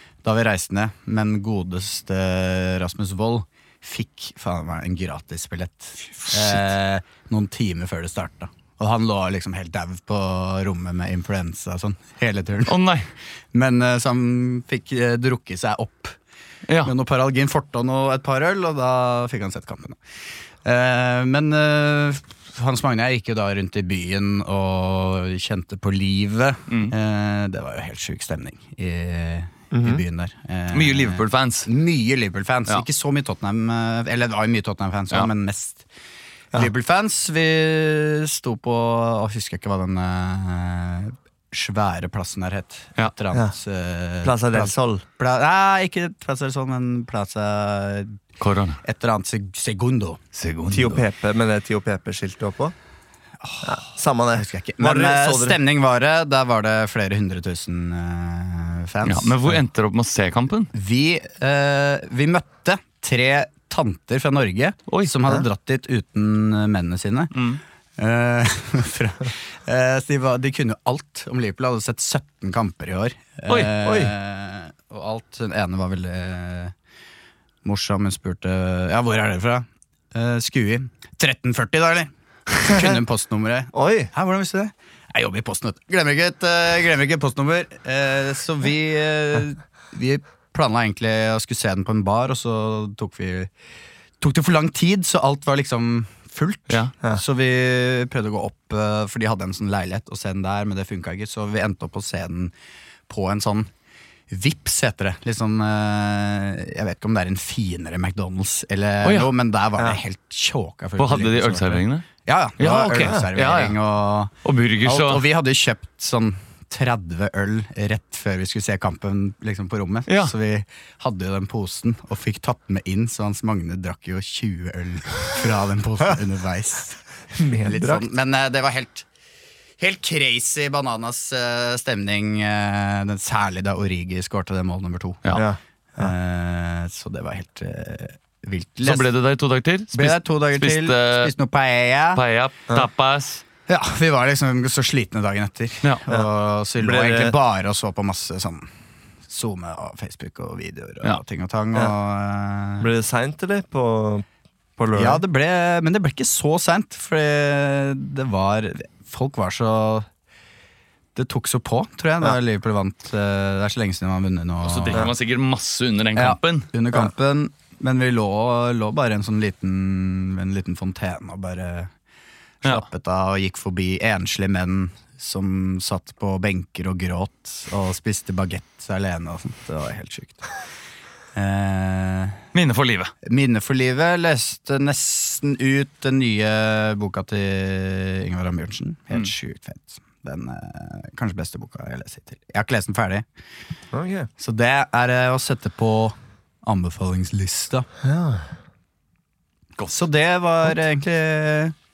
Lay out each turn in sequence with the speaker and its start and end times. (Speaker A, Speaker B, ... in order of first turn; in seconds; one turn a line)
Speaker A: 0.2-12.8
Speaker B: 6.2-6.7
Speaker B: 12.7-13.1
Speaker A: 13.5-16.1
Speaker B: 16.7-16.9
Speaker A: 16.8-20.0
Speaker A: 20.6-35.9
Speaker B: 26.7-26.9
Speaker C: 29.7-30.0
Speaker B: 30.7-31.7
Speaker A: 36.5-48.2
Speaker C: 44.2-45.0
Speaker B: 48.4-48.8
Speaker A: 48.8-50.2
Speaker B: 50.3-51.0
Speaker C: 50.7-52.7
Speaker A: 53.4-53.8
Speaker C: 53.6-55.6
Speaker A: 54.4-59.6
Speaker B: 59.0-60.7
Speaker A: 60.7-67.3
Speaker B: 67.3-67.6
Speaker A: 68.0-76.7
Speaker C: 73.8-74.1
Speaker A: 77.6-93.5
Speaker C: 82.7-83.0
Speaker C: 83.7-84.1
Speaker A: 94.2-102.5
Speaker A: 103.1-103.7
Speaker A: 104.3-127.0
Speaker B: 109.0-109.3
Speaker B: 111.0-112.1
Speaker B: 112.6-113.8
Speaker B: 114.4-115.2
Speaker B: 120.1-120.3
Speaker C: 127.3-128.1
Speaker A: 127.6-129.1
Speaker A: 129.8-135.2
Speaker C: 135.3-136.1
Speaker A: 136.0-139.1
Speaker B: 138.8-141.3
Speaker A: 139.9-142.2
Speaker B: 142.1-143.4
Speaker A: 143.7-148.7
Speaker C: 146.8-147.3
Speaker A: 149.3-152.9
Speaker C: 152.8-154.2
Speaker C: 154.8-155.2
Speaker A: 154.9-160.1
Speaker A: 161.1-165.1
Speaker B: 164.6-166.7
Speaker A: 166.1-171.9
Speaker A: 172.6-180.5
Speaker A: 181.3-182.4
Speaker B: 182.5-183.1
Speaker A: 183.2-193.2
Speaker C: 193.9-194.3
Speaker A: 194.4-197.9
Speaker C: 198.0-198.5
Speaker A: 199.9-201.7